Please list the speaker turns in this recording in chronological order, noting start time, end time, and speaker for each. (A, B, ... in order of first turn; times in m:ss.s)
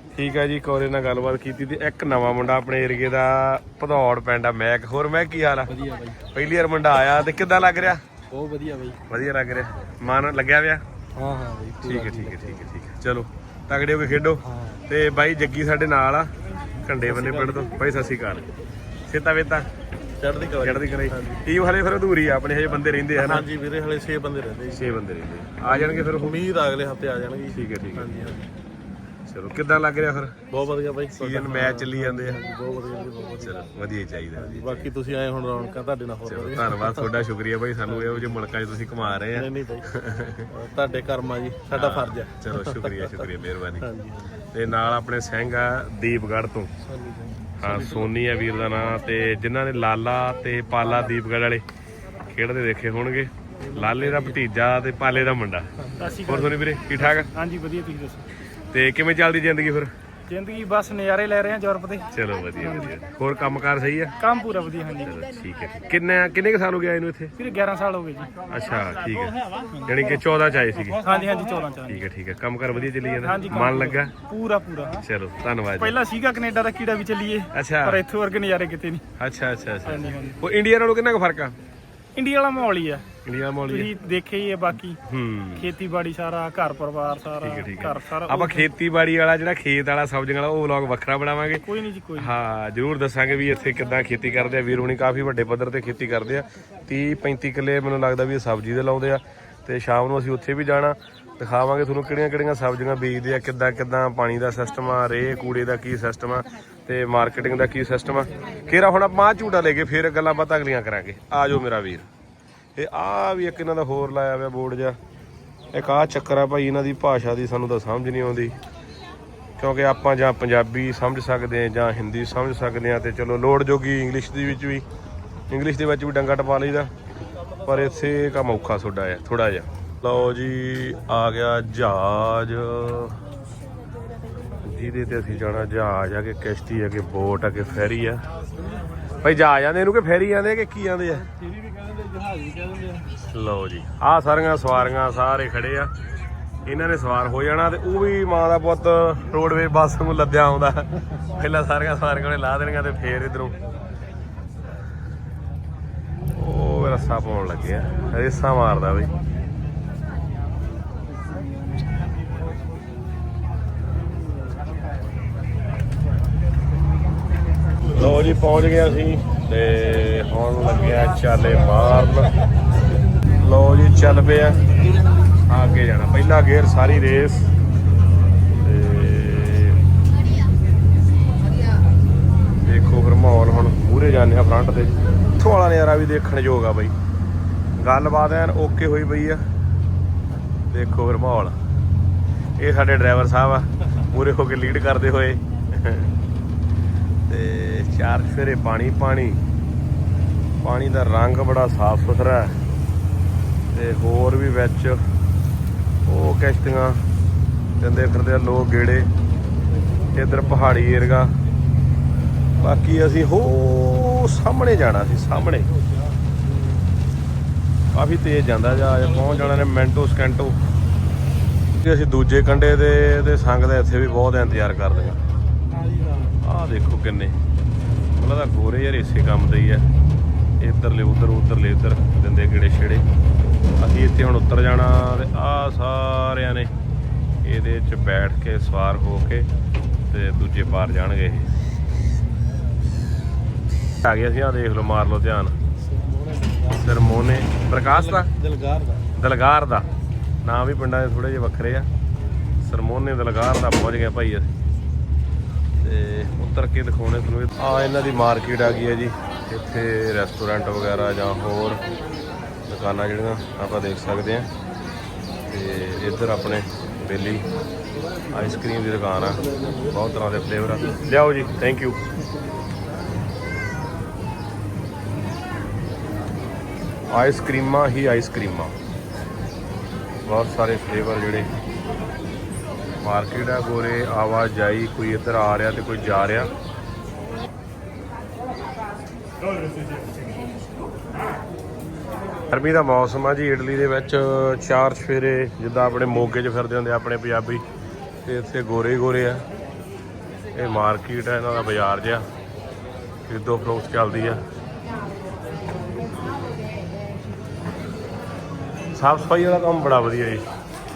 0:00.1-0:08.0 A
0:05.7-0:06.2 B
0:08.3-0:09.0 B
0:09.1-0:10.8 A
0:11.2-0:12.6 B
0:11.8-0:18.5 A
0:14.4-0:14.8 B
0:17.0-0:17.7 B
0:19.1-0:19.7 A
0:20.2-0:21.4 B
0:20.6-0:23.5 A
0:23.1-0:25.0 B
0:24.7-0:26.4 A
0:25.6-0:28.4 B
0:27.5-0:28.3 A
0:29.3-0:30.4 A
0:30.5-0:33.6 B
0:31.2-0:32.4 A
0:33.4-0:34.9 A
0:34.4-0:37.3 B
0:36.2-0:40.5 A
0:39.2-0:39.9 B
0:40.5-0:44.3 B
0:41.7-0:43.9 A
0:44.5-0:46.7 A
0:46.8-0:48.1 B
0:47.6-0:51.6 A
0:52.3-0:57.3 A
0:53.7-0:54.4 B
0:56.0-0:58.2 C
0:58.7-0:59.9 A
1:00.3-1:02.9 C
1:02.1-1:04.2 A
1:04.2-1:05.1 C
1:05.0-1:07.4 A
1:07.4-1:08.5 C
1:08.5-1:11.0 A
1:09.1-1:10.0 C
1:11.0-1:12.0 C
1:11.8-1:14.1 A
1:13.2-1:15.0 C
1:15.0-1:16.0 A
1:15.8-1:19.0 C
1:17.5-1:18.0 A
1:19.2-1:21.6 A
1:19.8-1:20.4 C
1:22.2-1:23.0 C
1:23.2-1:23.9 A
1:23.7-1:25.0 C
1:25.0-1:25.7 A
1:25.6-1:28.6 C
1:27.4-1:52.0 A
1:31.6-1:32.3 C
1:52.8-1:55.0 A
1:55.7-1:58.6 A
1:59.6-2:04.8 A
2:05.5-2:06.9 A
2:07.6-2:13.2 A
2:14.6-2:18.2 A
2:19.2-2:21.3 A
2:21.3-2:23.1 B
2:23.3-2:25.9 A
2:26.6-2:33.6 A
2:36.3-2:39.1 A
2:47.9-2:52.3 A
2:53.4-2:54.6 A
2:55.5-2:57.5 A
2:58.6-2:59.8 A
3:02.6-3:06.9 A
3:07.8-3:09.4 A
3:10.7-3:11.5 A
3:12.6-3:16.1 A
3:17.3-3:19.4 A
3:20.6-3:22.6 A
3:23.7-3:25.0 A
3:26.0-3:27.0 A
3:27.8-3:29.1 A
3:30.1-3:31.3 A
3:32.6-3:35.7 A
3:37.9-3:40.6 A
3:41.8-3:45.2 A
3:45.7-3:46.4 B
3:46.4-3:47.4 A
3:48.2-3:49.9 A
3:50.6-3:53.0 A
3:53.8-3:56.7 A
3:57.4-3:59.5 A
4:00.1-4:01.5 A
4:04.0-4:05.6 A
4:05.8-4:07.0 B
4:06.7-4:08.3 A
4:07.7-4:09.1 B
4:09.1-4:09.9 A
4:10.4-4:11.9 A
4:12.6-4:14.5 A
4:15.8-4:21.8 A
4:22.7-4:24.5 A
4:25.5-4:27.4 A
4:28.3-4:32.0 A
4:37.1-4:38.8 A
4:40.2-4:41.5 A
4:43.0-4:46.5 A
4:52.5-4:57.6 A
4:58.2-4:59.4 A
5:00.5-5:02.2 A
5:03.2-5:04.4 A
5:08.9-5:10.4 A